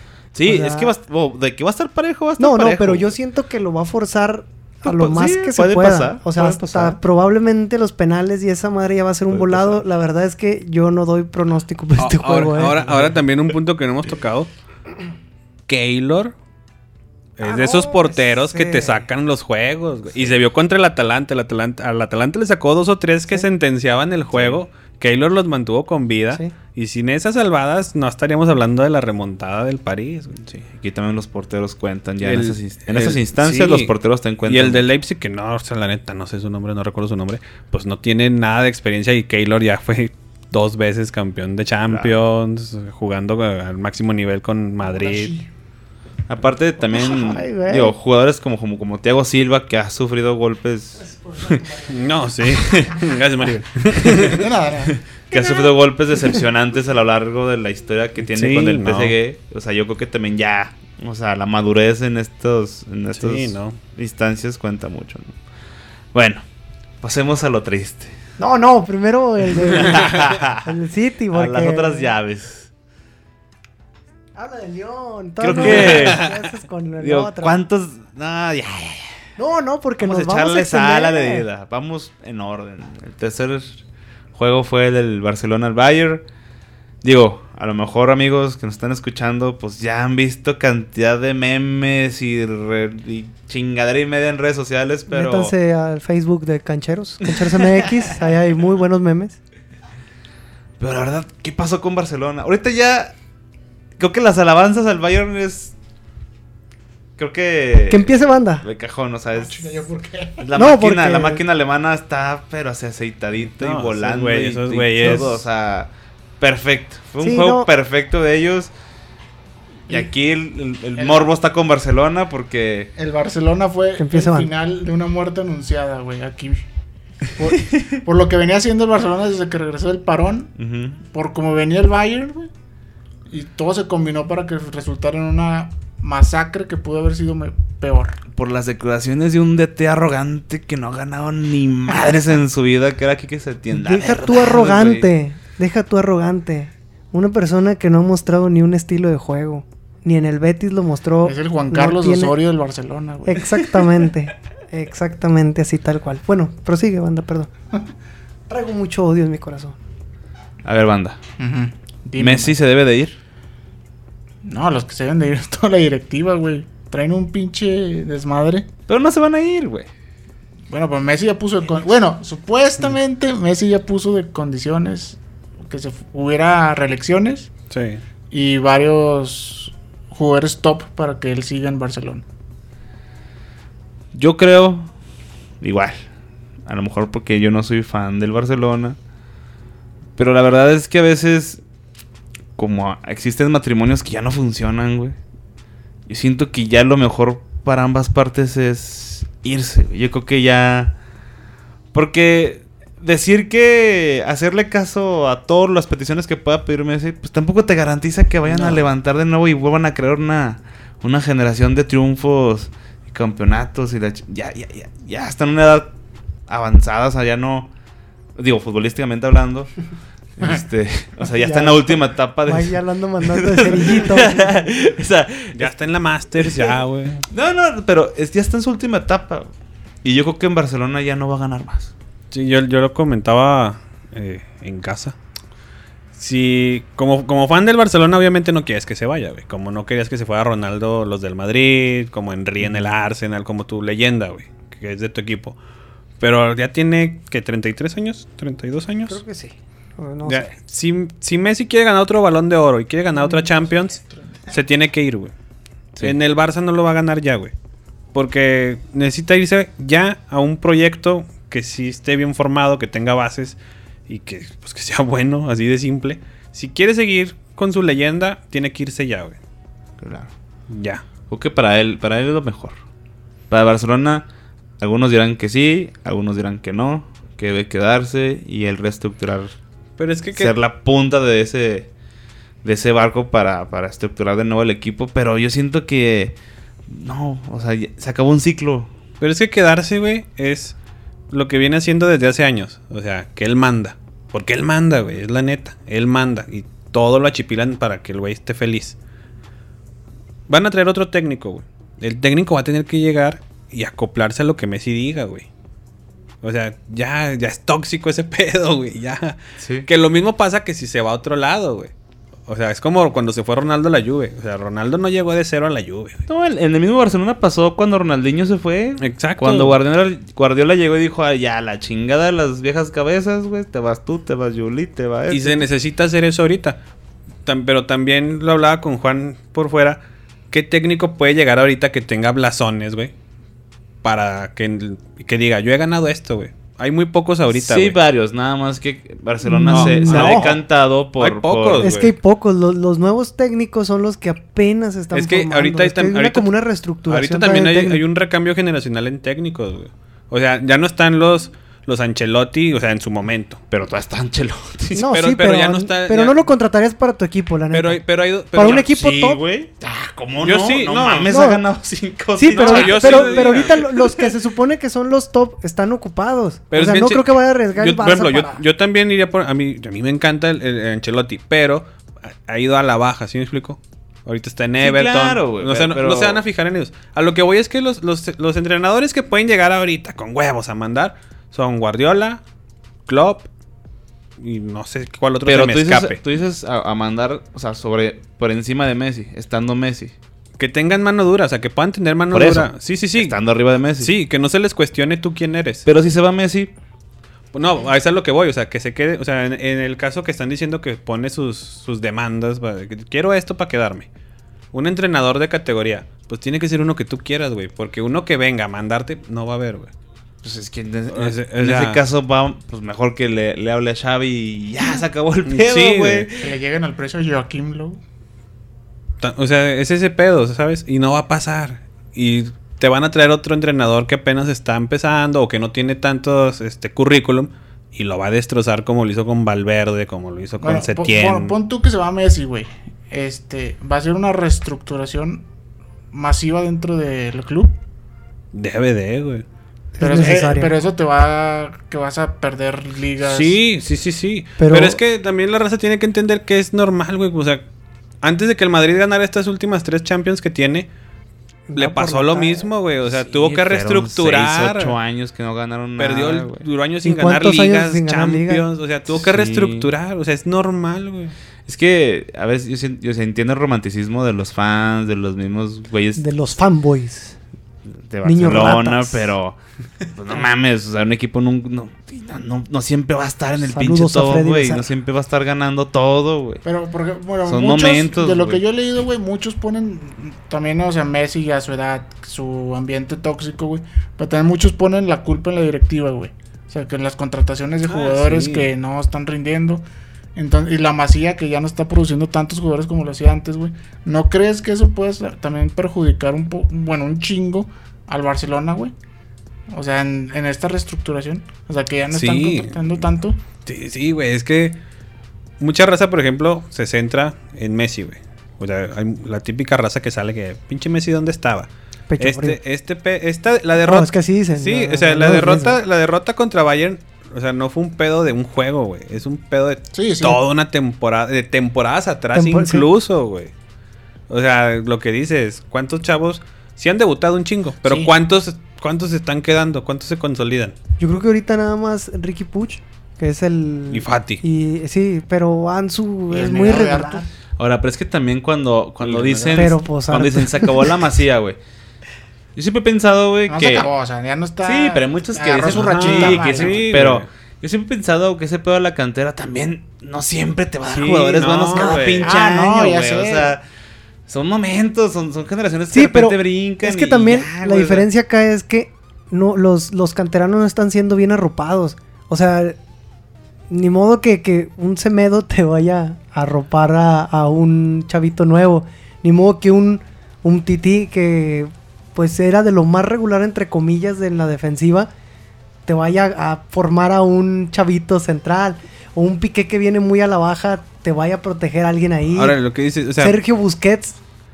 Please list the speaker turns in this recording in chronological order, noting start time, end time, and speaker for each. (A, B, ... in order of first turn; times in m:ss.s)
0:00.3-0:03.2 A
0:00.4-0:00.9 B
0:02.4-0:13.1 B
0:04.8-0:07.0 A
0:09.3-0:09.8 A
0:12.0-0:14.5 C
0:15.7-0:16.3 C
0:17.4-0:30.4 C
0:17.4-0:19.0 B
0:24.3-0:24.6 A
0:30.4-0:34.9 A
0:32.2-0:33.9 C
0:34.4-0:45.3 C
0:41.9-0:42.2 A
0:45.0-0:45.3 D
0:46.3-0:51.1 A
0:46.9-0:48.0 B
0:51.0-0:52.1 B
0:51.4-0:54.5 C
0:52.4-1:05.4 A
0:54.3-0:55.0 D
0:58.2-0:59.2 C
1:03.1-1:03.8 C
1:06.1-1:06.4 A
1:07.0-1:08.2 A
1:08.4-1:12.1 B
1:09.6-1:10.7 A
1:11.3-1:12.7 A
1:14.4-1:17.6 B
1:15.4-1:16.3 A
1:15.6-1:16.4 C
1:17.0-1:19.1 A
1:19.4-1:21.5 B
1:20.0-1:23.8 A
1:24.4-1:26.2 A
1:27.0-1:35.5 A
1:35.1-1:39.4 B
1:37.5-1:38.1 A
1:40.8-1:43.2 A
1:44.0-1:45.7 A
1:47.2-1:49.7 A
1:47.9-1:48.6 B
1:49.3-1:50.5 D
1:50.4-1:58.7 A
1:50.6-1:51.4 B
1:53.6-1:55.4 C
1:57.2-1:57.7 B
1:59.9-2:02.9 A
2:01.0-2:01.3 D
2:03.0-2:06.6 D
2:04.0-2:04.5 B
2:07.4-2:10.5 D
2:07.6-2:08.0 A
2:10.6-2:11.0 A
2:11.1-2:12.5 D
2:13.3-2:18.2 D
2:18.3-2:25.1 A
2:23.7-2:32.4 B
2:31.2-2:34.0 D
2:33.3-2:37.5 B
2:38.5-2:39.8 B
2:40.6-2:41.2 A
2:41.4-2:42.5 D
2:42.2-2:43.2 A
2:44.4-2:48.7 D
2:48.9-2:49.9 A
2:50.7-2:57.5 D
2:57.7-2:58.0 C
2:58.3-3:02.2 D
3:04.1-3:04.9 A
3:05.6-3:06.1 A
3:06.7-3:09.0 A
3:10.2-3:11.6 A
3:12.6-3:15.2 A
3:16.1-3:21.0 A
3:21.9-3:35.9 A
3:36.5-3:37.7 A
3:38.4-3:39.7 A
3:40.4-3:45.7 A
3:41.4-3:44.5 B
3:45.5-3:47.2 C
3:46.4-3:46.8 A
3:47.3-3:49.5 A
3:50.0-3:51.9 A
3:52.3-3:55.2 C
3:56.2-4:05.6 C
4:06.2-4:09.2 C
4:09.1-4:10.5 B
4:10.3-4:14.0 C
4:14.0-4:14.2 D
4:14.5-4:15.3 C
4:16.0-4:17.5 C
4:18.1-4:29.4 C
4:30.0-4:30.3 A
4:30.7-4:31.0 C
4:31.3-4:32.8 A
4:33.5-4:34.3 A
4:34.8-4:39.5 A
4:40.0-4:40.5 C
4:40.4-4:41.9 A
4:42.6-4:48.9 A
4:49.2-4:50.8 C
4:51.3-4:59.0 C
5:00.5-5:05.5 C
5:06.4-5:11.9 C
5:09.6-5:09.9 A
5:12.5-5:16.3 C
5:16.3-5:25.7 A
5:19.0-5:19.8 C
5:25.3-5:26.8 C
5:27.5-5:33.1 C
5:34.0-5:38.0 C
5:37.5-5:41.9 A
5:39.4-5:40.6 B
5:39.7-5:40.6 C
5:41.2-5:42.1 C
5:41.8-5:48.0 B
5:45.1-5:46.5 C
5:47.1-5:53.6 C
5:53.7-5:55.1 A
5:55.0-5:58.0 B
5:55.0-5:56.5 C
5:57.7-5:58.9 C
5:58.5-5:59.4 B
5:58.6-6:04.3 A
6:00.4-6:01.3 C
6:01.3-6:01.6 B
6:02.4-6:08.6 B
6:02.5-6:04.0 C
6:06.7-6:22.4 C
6:14.8-6:16.4 A
6:23.1-6:23.5 C
6:24.4-6:26.2 C
6:25.4-6:30.2 A
6:30.6-6:33.4 C
6:32.3-6:34.1 A
6:34.0-6:35.9 C
6:35.9-6:36.7 A
6:37.5-6:44.1 C
6:44.7-6:49.9 C
6:50.4-6:56.6 A
6:51.1-6:52.0 C
6:55.5-6:56.3 C
6:56.4-6:58.0 D
6:59.2-7:11.6 C
7:10.6-7:15.4 D
7:16.1-7:17.8 D
7:18.5-7:19.4 C
7:20.0-7:20.7 B
7:20.0-7:23.6 D
7:23.2-7:27.6 C
7:24.6-7:25.0 B
7:28.2-7:30.9 C
7:31.7-7:32.7 B
7:31.8-7:35.0 C
7:33.0-7:36.6 A
7:36.0-7:41.3 C
7:37.0-7:38.7 B
7:39.1-7:39.9 A
7:41.7-7:46.2 A
7:46.2-7:47.4 B
7:48.1-7:49.6 A
7:48.2-7:49.3 B
7:50.1-7:56.6 A
7:53.7-7:54.9 B
7:56.6-8:09.8 D
7:57.4-7:58.6 A
8:07.8-8:08.7 C
8:10.4-8:18.9 D
8:19.7-8:23.4 D
8:22.1-8:22.8 C
8:23.7-8:24.8 C
8:25.6-8:31.7 C
8:32.1-8:32.6 B
8:32.2-8:43.5 C
8:33.8-8:35.8 B
8:39.9-8:40.4 D
8:42.3-8:42.9 B
8:44.3-8:50.8 C
8:47.9-8:48.1 D
8:51.0-8:57.3 B
8:53.9-8:54.4 C
8:56.3-8:57.3 D
8:57.6-9:01.6 A
8:59.0-8:59.8 C
8:59.5-9:00.8 B
9:02.6-9:03.9 A
9:03.5-9:06.9 D
9:04.6-9:13.6 A
9:05.7-9:07.3 C
9:10.9-9:12.3 C
9:11.8-9:12.0 B
9:12.2-9:13.6 D
9:14.3-9:18.1 A
9:15.9-9:22.8 B
9:23.7-9:35.1 B
9:35.9-9:42.6 B
9:42.3-9:43.4 C
9:43.2-9:44.2 B